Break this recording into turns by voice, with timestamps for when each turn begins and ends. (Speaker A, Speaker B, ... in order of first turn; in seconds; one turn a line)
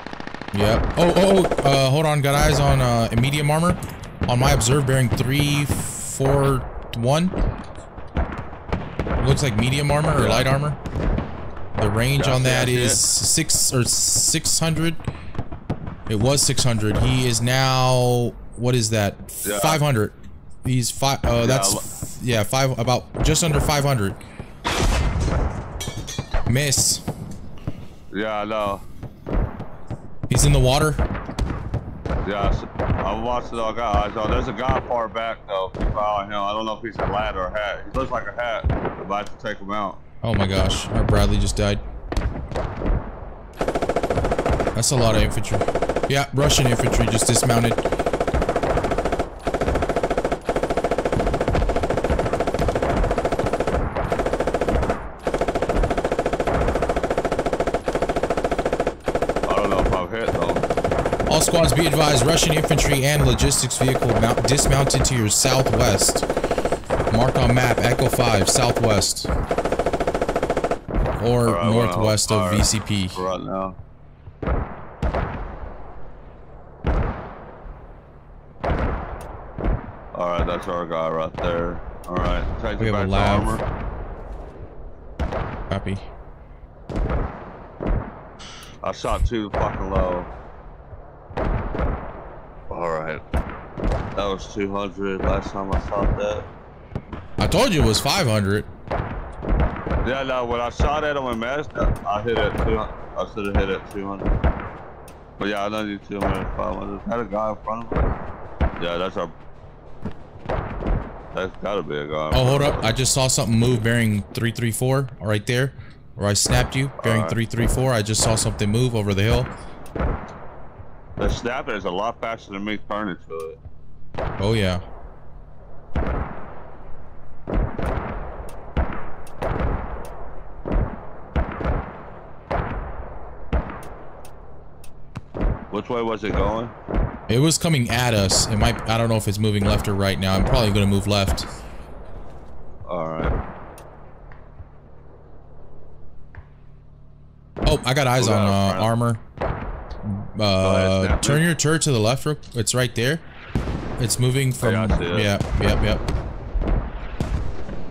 Speaker A: 0.5-7.3
Speaker A: 9.2-10.8
Speaker B: 10.1-10.5
Speaker A: 11.7-15.1
Speaker B: 12.2-13.0
Speaker A: 16.1-24.2
Speaker B: 19.4-19.8
Speaker B: 21.4-21.8
Speaker A: 26.5-27.1
Speaker B: 28.1-28.8
Speaker A: 30.3-31.0
Speaker B: 32.2-40.0
Speaker A: 40.2-41.8
Speaker A: 44.7-47.9
Speaker B: 59.5-60.6
Speaker A: 61.3-66.2
Speaker A: 67.1-69.3
Speaker A: 71.2-73.2
Speaker B: 71.4-73.8
Speaker B: 80.1-83.6
Speaker A: 82.8-83.6
Speaker A: 85.7-86.1
Speaker B: 88.8-90.3
Speaker B: 92.7-93.2
Speaker B: 94.2-96.5
Speaker A: 97.4-98.7
Speaker B: 100.0-104.3
Speaker B: 105.4-108.1
Speaker B: 108.8-109.3
Speaker B: 111.3-112.9
Speaker A: 112.3-119.5
Speaker B: 117.0-117.4
Speaker B: 121.2-123.6
Speaker A: 124.4-124.8
Speaker B: 135.7-136.7
Speaker A: 137.3-141.5
Speaker B: 142.9-143.3
Speaker A: 147.6-149.2
Speaker B: 148.2-148.9
Speaker A: 150.0-153.2
Speaker B: 150.6-151.4
Speaker A: 154.0-156.0
Speaker B: 154.6-155.3